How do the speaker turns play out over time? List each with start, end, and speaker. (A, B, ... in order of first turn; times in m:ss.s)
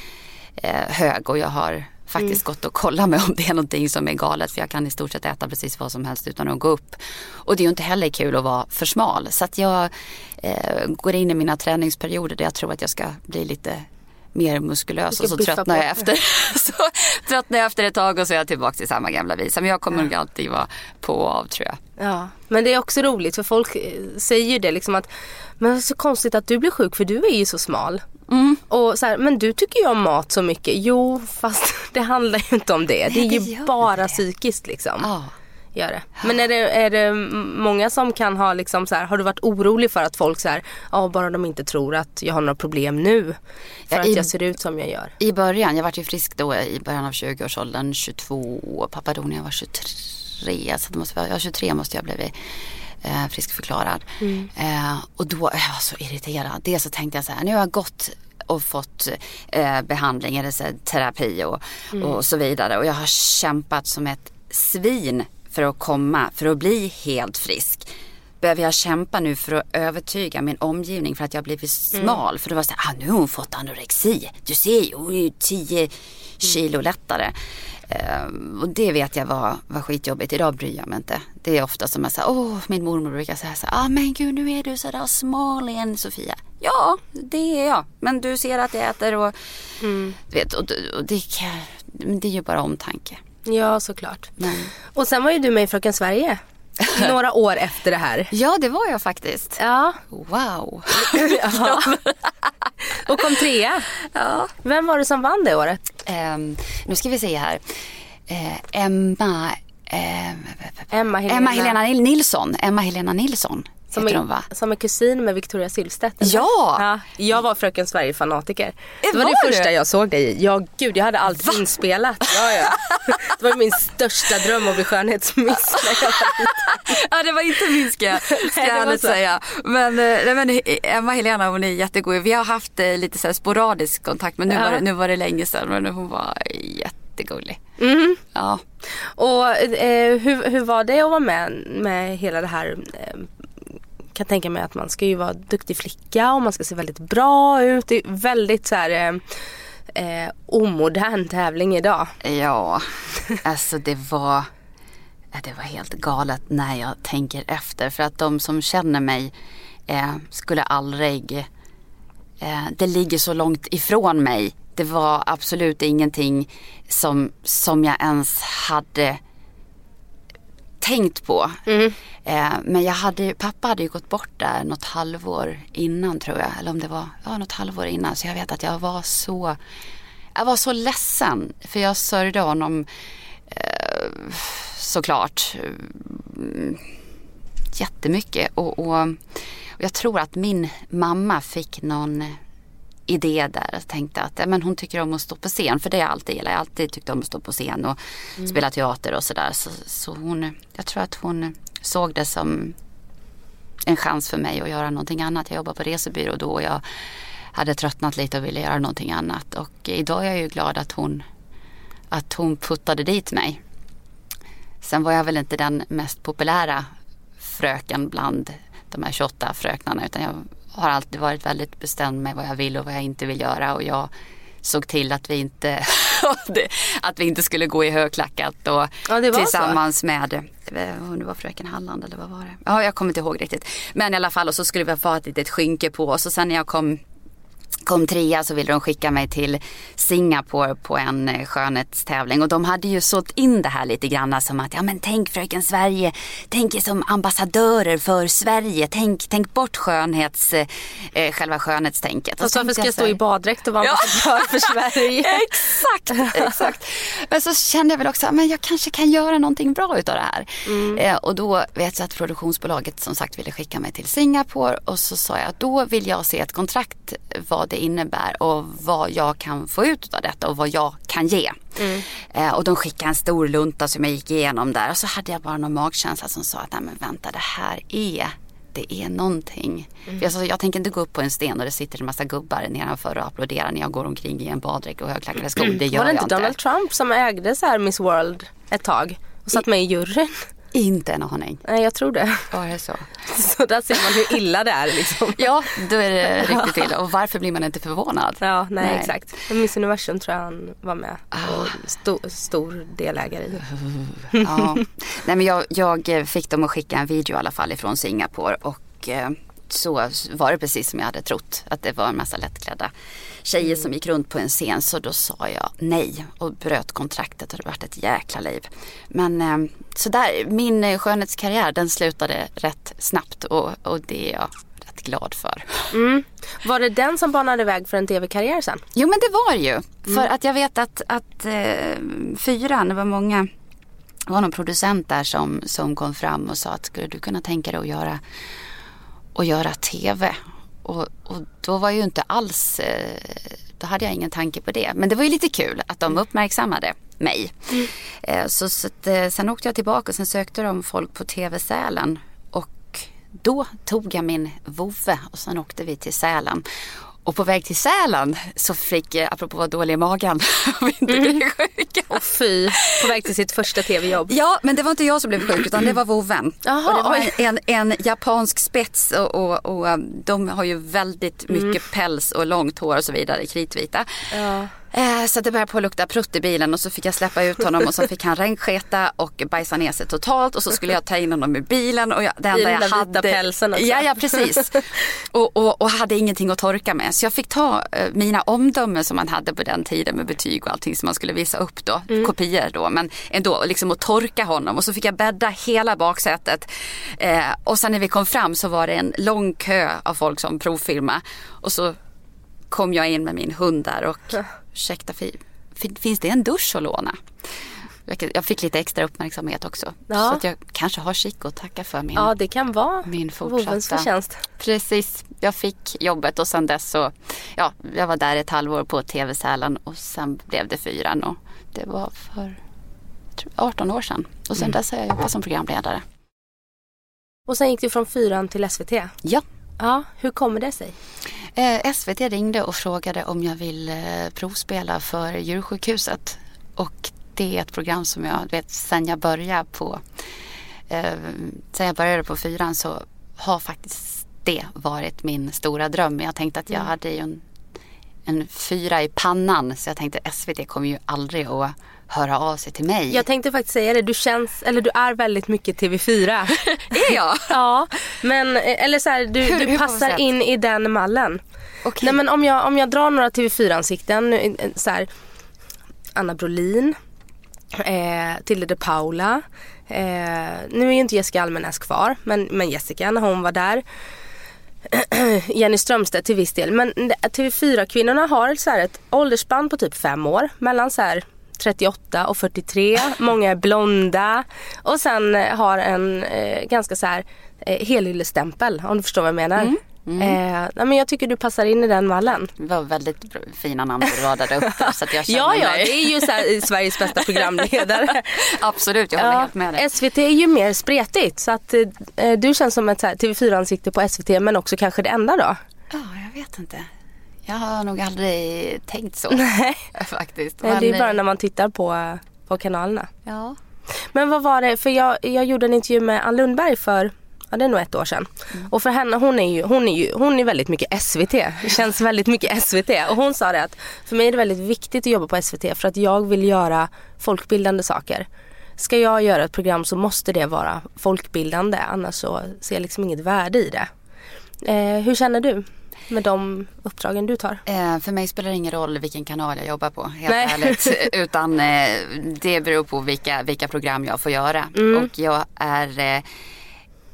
0:00.6-0:21.8 A
0:15.1-0:16.0 B
0:22.0-0:25.1 B
0:25.6-0:28.0 B
0:28.3-0:28.6 A
0:28.7-0:35.1 B
0:33.1-0:34.2 A
0:35.0-0:35.3 A
0:35.7-0:43.4 B
0:43.9-0:44.3 A
0:43.9-0:45.1 B
0:45.2-0:52.3 A
0:53.0-1:07.9 A
0:54.2-0:54.5 B
1:08.4-1:17.3 A
1:17.9-1:29.3 A
1:29.8-1:30.2 B
1:30.3-1:33.2 A
1:33.4-1:34.3 B
1:34.4-1:34.7 A
1:34.9-1:38.3 B
1:36.8-1:37.1 A
1:38.3-1:42.7 A
1:39.6-1:40.0 B
1:41.0-1:42.0 B
1:42.9-1:43.9 B
1:44.1-1:44.5 A
1:44.6-1:45.8 B
1:46.0-1:47.6 A
1:48.3-1:54.5 A
1:50.9-1:51.8 B
1:53.9-2:06.9 B
1:56.2-1:56.8 A
1:59.0-1:59.7 A
2:02.8-2:03.2 A
2:05.7-2:17.6 A
2:08.2-2:09.2 B
2:14.5-2:14.8 B
2:17.8-2:18.2 B
2:18.3-2:18.6 A
2:19.2-2:23.3 B
2:24.1-2:29.2 B
2:29.9-2:32.1 B
2:32.2-2:34.5 A
2:35.3-2:39.3 A
2:39.9-2:41.5 A
2:42.4-2:49.2 A
2:50.8-2:51.6 A
2:51.7-2:52.0 B
2:52.2-2:59.6 A
3:00.3-3:02.8 A
3:03.5-3:06.9 A
3:07.7-3:12.4 A
3:13.1-3:22.8 A
3:23.9-3:26.8 A
3:27.5-3:31.2 A
3:32.1-3:33.6 A
3:34.8-3:36.9 A
3:37.4-3:44.1 A
3:44.6-3:57.0 A
3:49.1-3:49.8 B
3:57.8-4:13.2 A
4:12.4-4:15.5 B
4:13.8-4:46.5 A
4:16.2-4:16.4 B
4:20.6-4:21.0 B
4:31.8-4:32.0 B
4:45.7-4:50.4 B
4:50.7-4:51.6 A
4:51.7-4:52.5 B
4:52.5-4:53.1 A
4:53.3-4:55.4 B
4:55.4-4:59.1 A
4:56.3-4:56.8 B
4:58.4-5:03.6 B
5:01.3-5:01.7 A
5:03.8-5:12.9 A
5:13.4-5:25.9 A
5:25.9-5:28.8 B
5:28.9-5:33.5 A
5:34.3-5:38.2 A
5:39.3-5:56.6 A
5:57.2-6:02.2 A
6:01.1-6:01.4 B
6:02.1-6:04.3 B
6:02.8-6:03.1 A
6:04.2-6:14.3 A
6:06.6-6:07.4 B
6:14.3-6:14.7 B
6:14.9-6:42.0 A
6:22.5-6:24.8 B
6:42.7-6:47.2 A
6:48.0-6:52.3 A
6:50.1-6:50.4 B
6:52.2-6:54.4 B
6:53.0-6:54.1 A
6:54.6-7:02.6 A
7:03.4-7:06.0 A
7:07.5-7:09.1 B
7:09.8-7:10.9 B
7:11.5-7:20.0 A
7:20.9-7:27.4 A
7:28.2-7:33.2 A
7:33.1-7:36.6 B
7:36.6-7:37.5 A
7:37.5-7:41.4 B
7:39.4-7:40.2 A
7:41.8-7:42.2 A
7:42.0-7:45.1 B
7:46.2-7:46.9 B
7:47.7-7:53.8 B
7:54.9-8:12.5 B
8:09.6-8:10.4 A
8:12.5-8:16.2 A
8:14.7-8:18.5 B
8:18.3-8:19.9 A
8:19.2-8:25.6 B
8:25.9-8:26.9 A
8:27.4-8:31.2 A
8:29.3-8:29.8 B
8:30.6-8:33.1 B
8:33.2-8:33.6 A
8:34.1-8:48.3 B
8:48.8-8:53.9 B
8:54.6-8:57.6 B
8:57.6-9:06.2 A
9:00.3-9:01.0 B
9:04.8-9:05.1 B